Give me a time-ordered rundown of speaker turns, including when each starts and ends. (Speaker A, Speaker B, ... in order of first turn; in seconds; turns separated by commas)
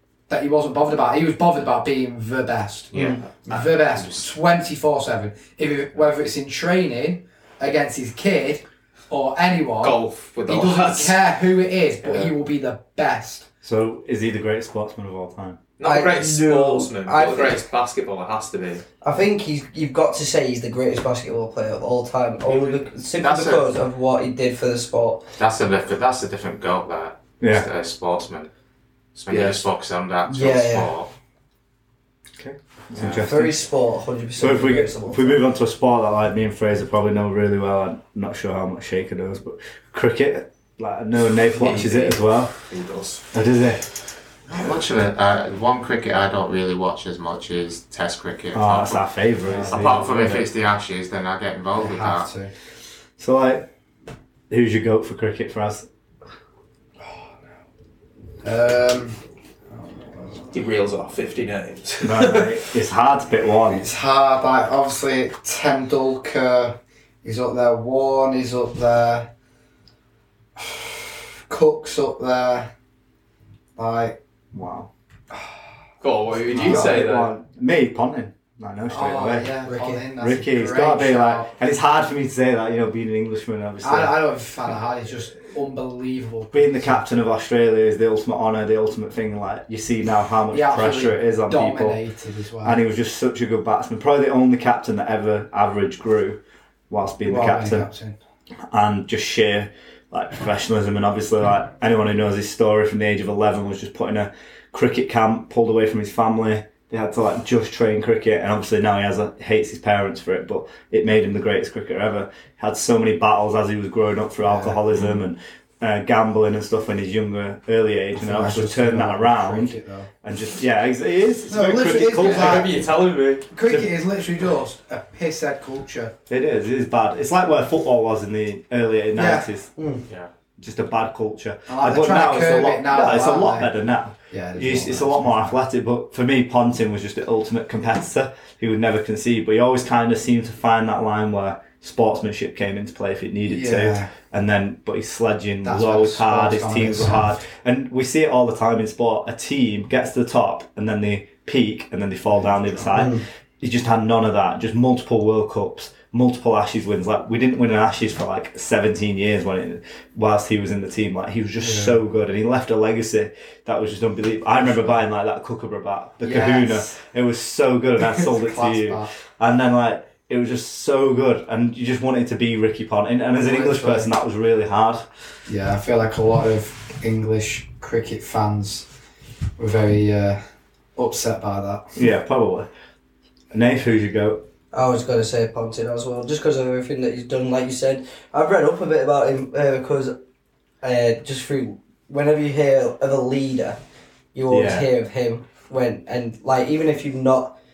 Speaker A: 0.3-13.5, Speaker B: 2.9-4.3, Speaker C: 9.8-11.2, Speaker C: 12.0-12.3, Speaker D: 13.6-15.6, Speaker C: 15.8-18.8, Speaker E: 15.8-17.6, Speaker E: 19.0-25.2, Speaker C: 22.5-22.8, Speaker B: 23.2-23.7, Speaker B: 25.4-28.5, Speaker D: 27.4-27.7, Speaker B: 29.1-31.1, Speaker C: 29.3-29.6, Speaker E: 30.3-30.9, Speaker D: 32.4-33.6, Speaker B: 33.0-33.2, Speaker E: 33.1-35.4, Speaker D: 34.4-42.5, Speaker C: 41.6-43.3, Speaker D: 43.3-43.9, Speaker B: 44.5-49.1, Speaker D: 48.5-50.5, Speaker A: 49.5-49.9, Speaker B: 49.6-52.3, Speaker A: 51.8-52.5, Speaker D: 53.2-53.7, Speaker D: 54.5-55.9, Speaker A: 58.4-59.2, Speaker A: 59.7-60.5, Speaker C: 60.5-62.7, Speaker D: 62.0-63.9, Speaker A: 63.7-69.3, Speaker A: 70.6-70.9, Speaker A: 71.5-72.7, Speaker A: 73.8-74.2, Speaker D: 74.5-74.9, Speaker C: 76.0-77.3, Speaker A: 76.5-77.0, Speaker D: 76.5-79.5, Speaker A: 78.9-81.5, Speaker E: 79.7-80.0, Speaker D: 80.2-84.2, Speaker A: 83.8-87.0, Speaker D: 86.5-92.0, Speaker A: 90.5-92.8, Speaker D: 92.6-97.9, Speaker A: 97.3-98.2, Speaker D: 98.7-122.7, Speaker A: 114.4-114.8, Speaker A: 118.2-120.1, Speaker A: 121.5-122.7, Speaker C: 122.2-123.5, Speaker A: 123.5-126.1, Speaker D: 123.7-123.9, Speaker D: 126.3-129.7, Speaker A: 129.2-129.5, Speaker E: 129.8-130.0, Speaker D: 130.6-175.1, Speaker A: 131.7-133.7, Speaker A: 134.3-135.6, Speaker A: 143.5-144.1, Speaker A: 145.6-147.4, Speaker E: 152.9-153.2, Speaker A: 161.6-162.0, Speaker A: 166.2-166.9, Speaker A: 168.1-169.1, Speaker A: 173.4-174.1, Speaker A: 175.5-178.9, Speaker A: 179.6-180.4, Speaker A: 181.0-181.9, Speaker D: 181.9-182.7, Speaker D: 183.5-184.4, Speaker E: 184.7-190.2, Speaker E: 190.8-193.8, Speaker E: 194.3-197.6, Speaker D: 194.5-194.9